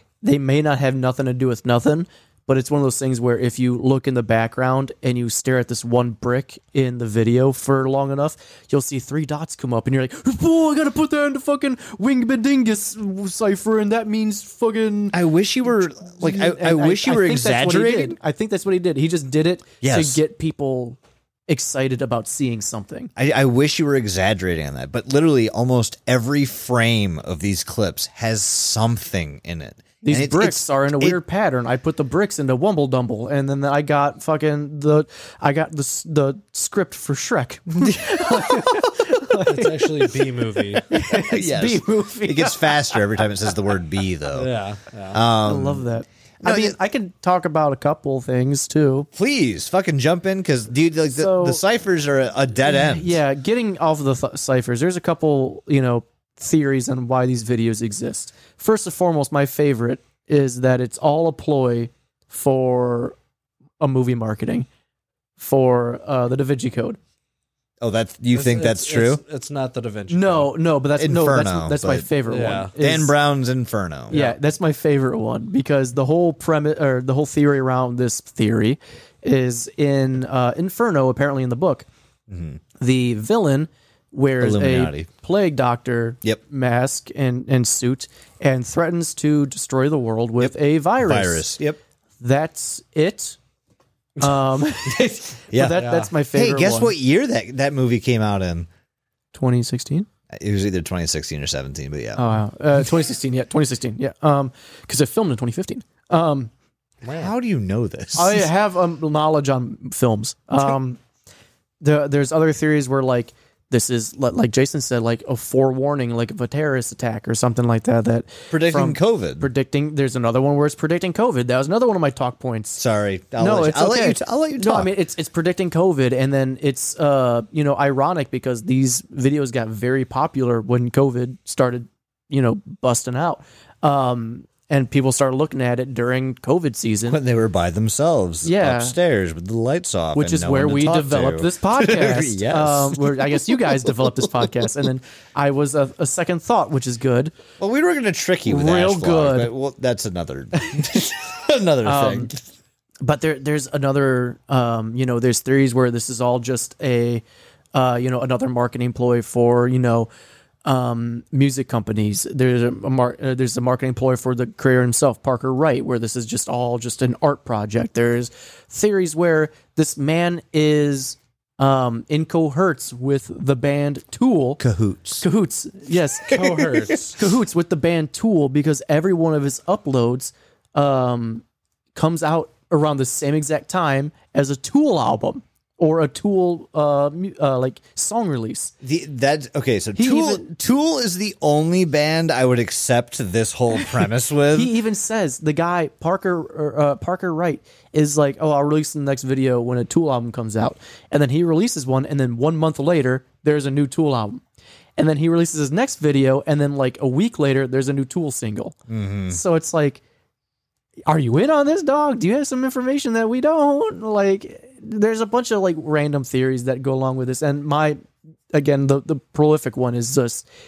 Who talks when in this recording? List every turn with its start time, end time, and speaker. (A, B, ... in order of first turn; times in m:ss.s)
0:00.2-0:15.2 A
0:15.1-0:18.2 B
0:16.0-0:23.1 A
0:19.8-0:20.2 B
0:23.2-0:31.2 B
0:30.0-0:40.2 A
0:37.8-0:38.8 B
0:39.5-0:40.8 C
0:40.8-0:43.2 A
0:41.1-0:44.5 B
0:44.3-0:45.2 C
0:45.1-0:45.8 B
0:45.4-0:49.1 A
0:46.4-0:46.8 B
0:49.1-0:53.2 B
0:51.1-0:51.6 A
0:52.6-1:03.2 A
1:03.8-1:04.7 A
1:05.4-1:07.0 A
1:07.8-1:09.2 B
1:08.3-1:10.5 C
1:10.1-1:13.1 A
1:11.0-1:12.1 B
1:12.3-1:12.7 C
1:12.8-1:14.2 B
1:14.1-1:21.9 A
1:22.3-1:22.6 B
1:22.8-1:31.5 A
1:24.4-1:25.1 B
1:30.4-1:31.8 B
1:32.2-1:33.4 A
1:34.2-1:36.9 A
1:34.9-1:38.7 B
1:35.8-1:36.1 C
1:39.3-1:40.1 A
1:40.3-1:42.2 B
1:42.2-1:46.5 A
1:47.0-1:47.3 C
1:47.1-1:48.5 B
1:48.2-1:51.0 A
1:51.8-2:02.8 A
1:58.5-1:59.5 B
2:02.8-2:04.9 B
2:03.4-2:17.2 A
2:17.1-2:24.6 B
2:18.4-2:19.0 A
2:20.2-2:27.3 A
2:27.6-2:32.4 B
2:28.5-2:29.5 A
2:31.8-2:32.3 A
2:33.0-2:37.2 A
2:37.7-2:40.1 A
2:40.6-2:54.6 A
2:54.6-2:55.2 B
2:55.2-2:56.5 A
2:56.3-2:56.9 B
2:56.3-2:57.2 C
2:57.1-3:08.7 A
3:08.8-3:14.7 B
3:10.0-3:10.5 A
3:14.5-3:24.4 A
3:25.0-3:28.8 A
3:28.9-3:29.4 B
3:29.3-3:30.0 A
3:31.1-3:38.0 A
3:38.5-3:40.5 A